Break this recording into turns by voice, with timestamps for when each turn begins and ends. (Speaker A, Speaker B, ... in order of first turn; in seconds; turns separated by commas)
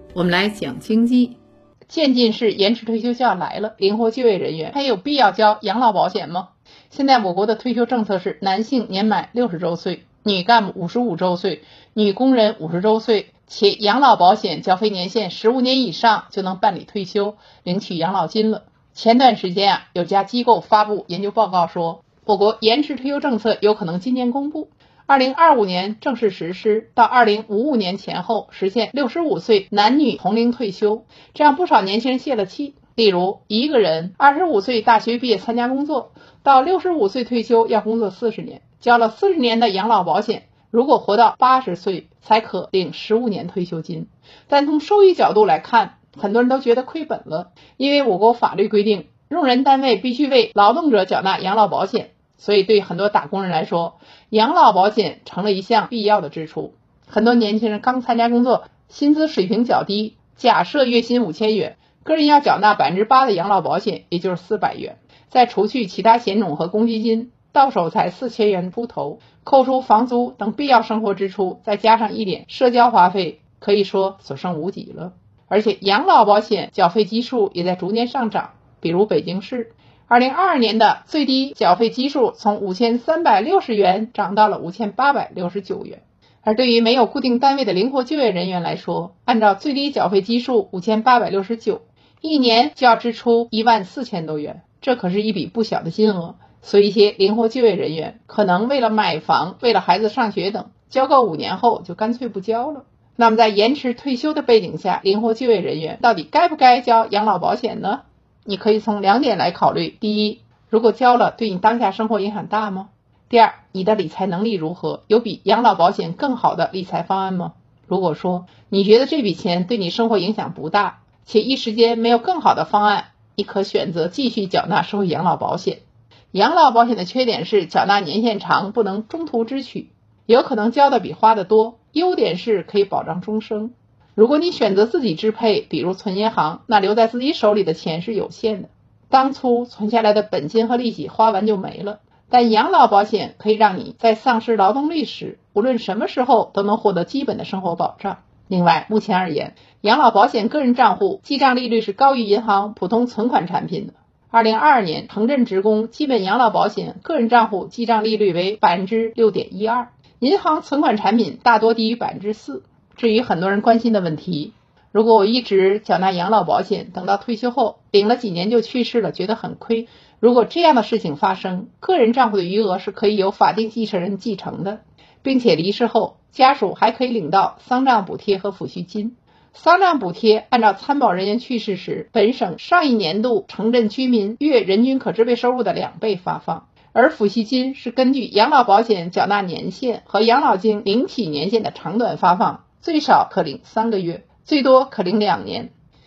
Speaker A: 0.1-195.7